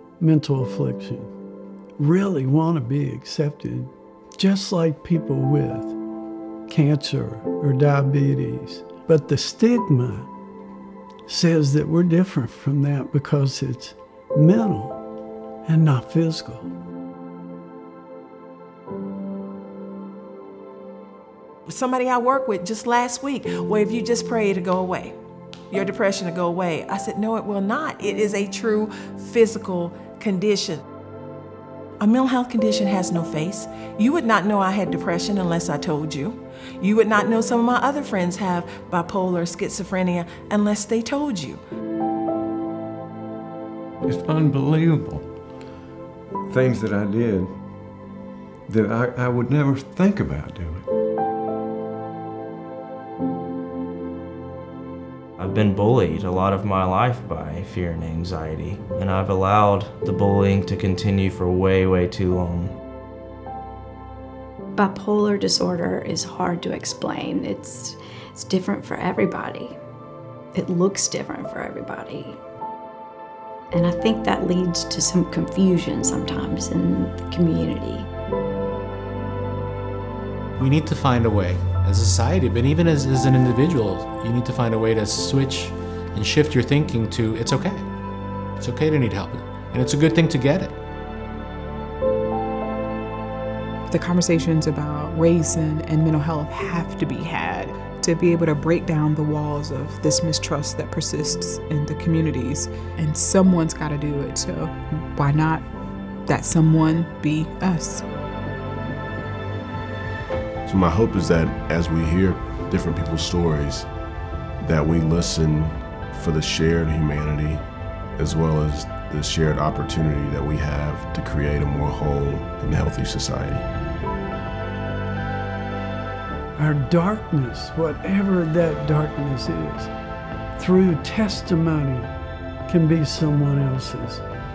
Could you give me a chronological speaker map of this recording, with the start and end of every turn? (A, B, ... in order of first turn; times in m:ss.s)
0:00.2-0:01.3 A
0:02.0-0:06.0 A
0:06.7-0:10.3 A
0:11.3-0:15.0 A
0:15.7-0:16.7 A
0:21.7-0:25.1 B
0:25.7-0:30.8 B
0:32.0-0:41.6 B
0:44.0-0:45.4 C
0:46.5-0:47.9 C
0:48.7-0:50.9 C
0:55.4-1:02.8 D
1:04.8-1:09.8 E
1:10.5-1:12.4 E
1:13.7-1:18.1 E
1:20.6-1:30.8 F
1:33.9-1:45.6 G
1:46.3-1:48.0 G
1:50.7-1:53.9 H
1:54.6-1:57.6 H
1:58.2-2:03.7 H
2:06.6-2:09.9 A
2:10.6-2:12.1 A
2:12.7-2:14.2 A